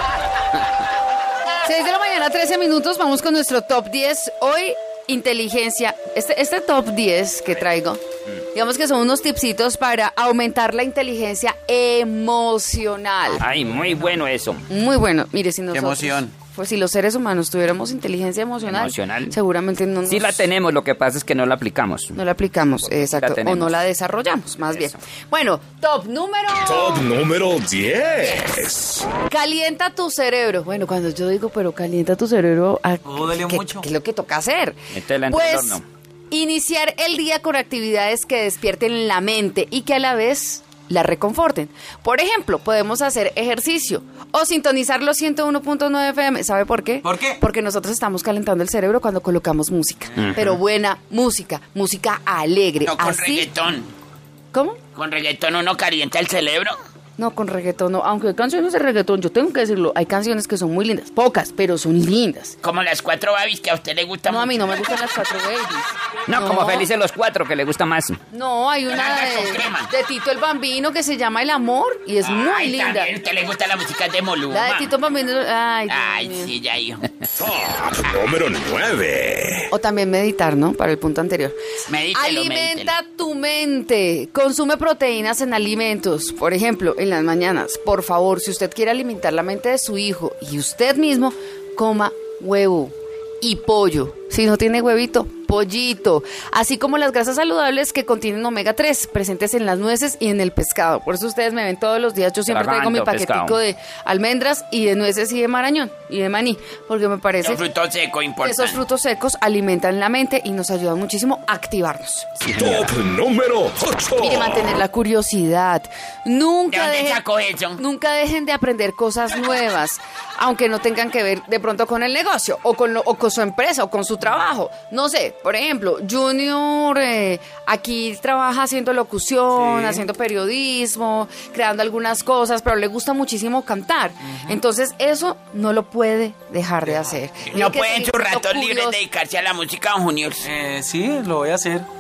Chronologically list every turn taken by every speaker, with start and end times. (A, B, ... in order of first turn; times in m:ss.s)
0:01.6-0:08.0 A
0:08.5-0:13.4 A
0:13.4-0:14.6 B
0:14.7-0:20.5 A
0:15.7-0:16.3 C
0:18.6-0:19.3 B
0:20.1-0:22.2 B
0:22.1-0:27.1 A
0:22.9-0:23.8 B
0:24.7-0:25.0 B
0:26.6-0:29.1 D
0:29.3-0:53.5 A
0:33.0-0:33.9 C
0:34.9-0:35.8 B
0:47.0-0:47.4 C
0:52.8-0:53.9 E
0:54.5-0:54.8 A
0:55.0-0:56.8 E
0:57.2-1:02.6 A
1:02.6-1:04.6 E
1:04.3-1:06.9 A
1:06.3-1:08.2 B
1:08.3-1:13.1 A
1:08.9-1:09.9 E
1:12.2-1:14.9 E
1:14.5-1:16.5 A
1:15.9-1:17.0 E
1:17.4-1:19.7 D
1:19.7-1:21.6 A
1:21.9-1:22.9 E
1:22.1-1:47.6 A
1:42.5-1:43.6 B
1:47.4-1:48.8 E
1:48.4-1:52.5 A
1:52.4-1:52.9 B
1:52.6-1:54.8 D
1:54.2-1:57.2 A
1:56.7-1:57.8 E
1:57.8-2:19.0 A
2:09.5-2:10.0 C
2:14.2-2:14.6 C
2:16.8-2:17.2 C
2:17.5-2:20.5 E
2:20.4-2:21.9 C